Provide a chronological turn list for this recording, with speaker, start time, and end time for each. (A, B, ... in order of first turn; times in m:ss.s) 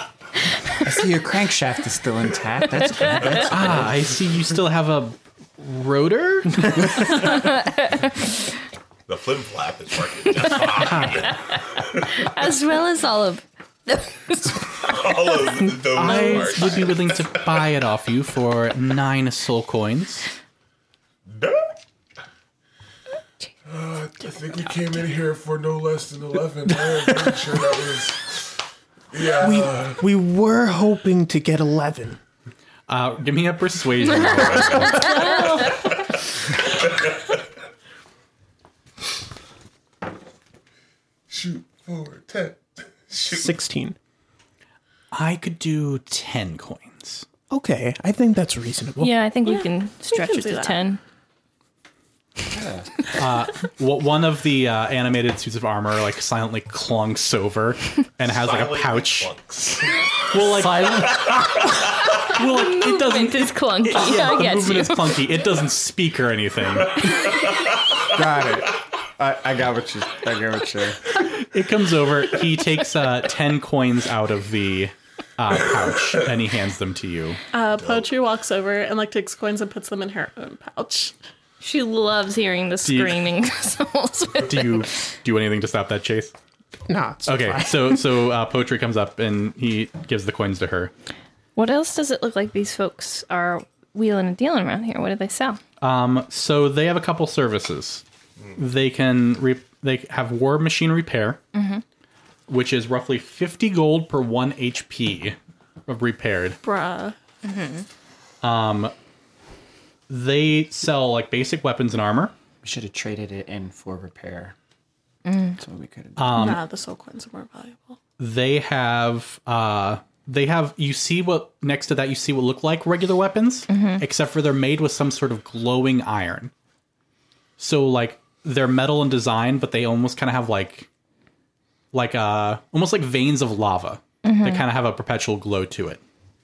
0:00.8-0:04.1 A
0:03.5-0:07.1 B
0:09.1-0:11.4 C
0:12.2-0:16.6 D
0:14.9-0:17.3 C
0:16.0-0:20.3 B
0:23.6-0:28.4 E
0:29.1-0:30.0 E
0:29.4-0:32.2 F
0:32.9-0:35.2 B
0:34.9-0:35.3 D
0:35.1-0:35.8 G
0:41.3-0:43.5 E
0:43.3-0:44.0 F
0:45.1-0:47.3 B
0:47.5-0:49.2 F
0:49.0-0:51.0 D
0:49.4-0:50.8 G
0:52.5-0:53.0 A
0:53.2-0:59.4 B
0:58.2-1:00.0 C
1:00.3-1:07.2 B
1:02.4-1:05.3 D
1:08.0-1:11.1 A
1:11.4-1:17.4 B
1:17.5-1:21.2 G
1:21.6-1:24.9 D
1:22.8-1:23.2 B
1:24.4-1:26.3 B
1:26.9-1:28.0 F
1:27.3-1:30.9 B
1:31.6-1:35.6 D
1:35.8-1:38.0 B
1:38.6-1:41.4 B
1:41.5-1:41.8 D
1:42.5-1:46.6 B
1:46.6-1:47.2 G
1:47.4-1:47.9 D
1:48.4-1:48.9 B
1:50.1-1:52.3 B
1:52.6-1:54.6 A
1:55.2-1:55.6 D
1:55.6-1:56.5 A
1:56.2-1:56.6 B
1:56.4-1:58.0 G
1:58.2-2:06.5 B
2:03.7-2:04.0 D
2:07.6-2:10.9 B
2:11.9-2:16.0 B
2:14.2-2:14.6 D